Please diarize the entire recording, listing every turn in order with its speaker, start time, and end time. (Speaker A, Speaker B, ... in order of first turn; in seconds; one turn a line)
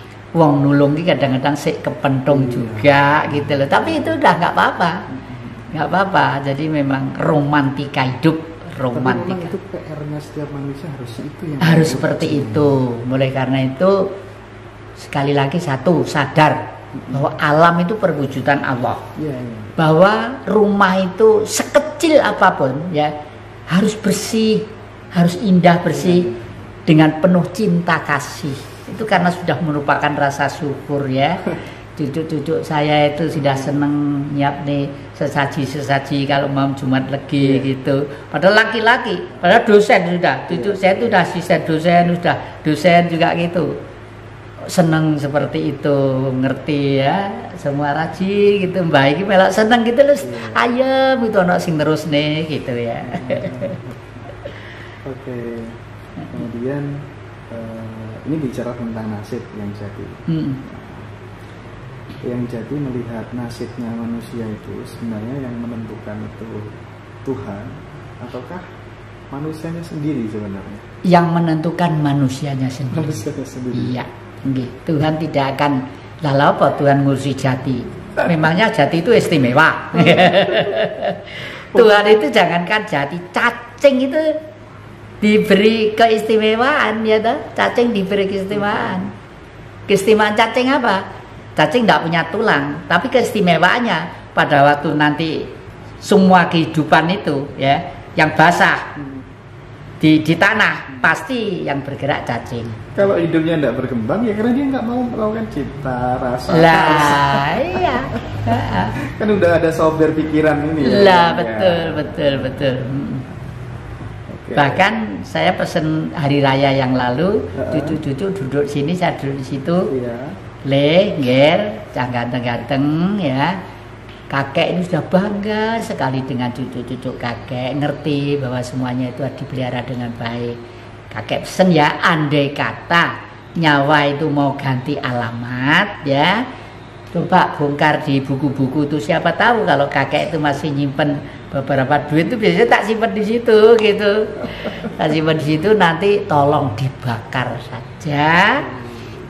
Speaker A: 0.3-5.0
Speaker B: 2.3-4.2
Speaker B: 5.1-5.7
Speaker A: 5.7-9.5
Speaker B: 8.9-12.8
Speaker A: 11.6-14.1
Speaker A: 15.0-16.6
Speaker B: 16.9-17.2
Speaker A: 17.1-19.0
Speaker B: 19.2-19.7
Speaker A: 19.8-23.1
Speaker A: 23.7-26.3
Speaker B: 25.9-26.5
Speaker A: 26.9-43.7
Speaker B: 33.4-33.8
Speaker B: 37.4-37.7
Speaker B: 40.5-41.1
Speaker A: 44.7-53.8
Speaker B: 50.2-50.6
Speaker B: 53.0-54.0
Speaker B: 55.0-55.8
Speaker B: 56.3-61.1
Speaker A: 60.3-60.6
Speaker B: 62.2-68.6
Speaker B: 69.3-70.8
Speaker A: 71.0-84.4
Speaker B: 72.9-74.0
Speaker B: 79.9-80.8
Speaker B: 81.7-82.2
Speaker A: 85.2-89.1
Speaker B: 88.5-89.0
Speaker A: 89.9-91.0
Speaker A: 91.5-95.5
Speaker A: 96.0-98.9
Speaker B: 99.0-99.2
Speaker A: 100.0-102.8
Speaker B: 102.9-108.2
Speaker A: 106.5-109.0
Speaker B: 109.0-112.3
Speaker A: 110.8-113.2
Speaker B: 114.3-114.8
Speaker A: 114.5-119.9
Speaker B: 117.6-118.0
Speaker B: 119.9-120.3
Speaker A: 120.7-123.6
Speaker A: 124.3-130.6
Speaker A: 131.1-136.4
Speaker A: 137.1-148.7
Speaker B: 148.7-149.1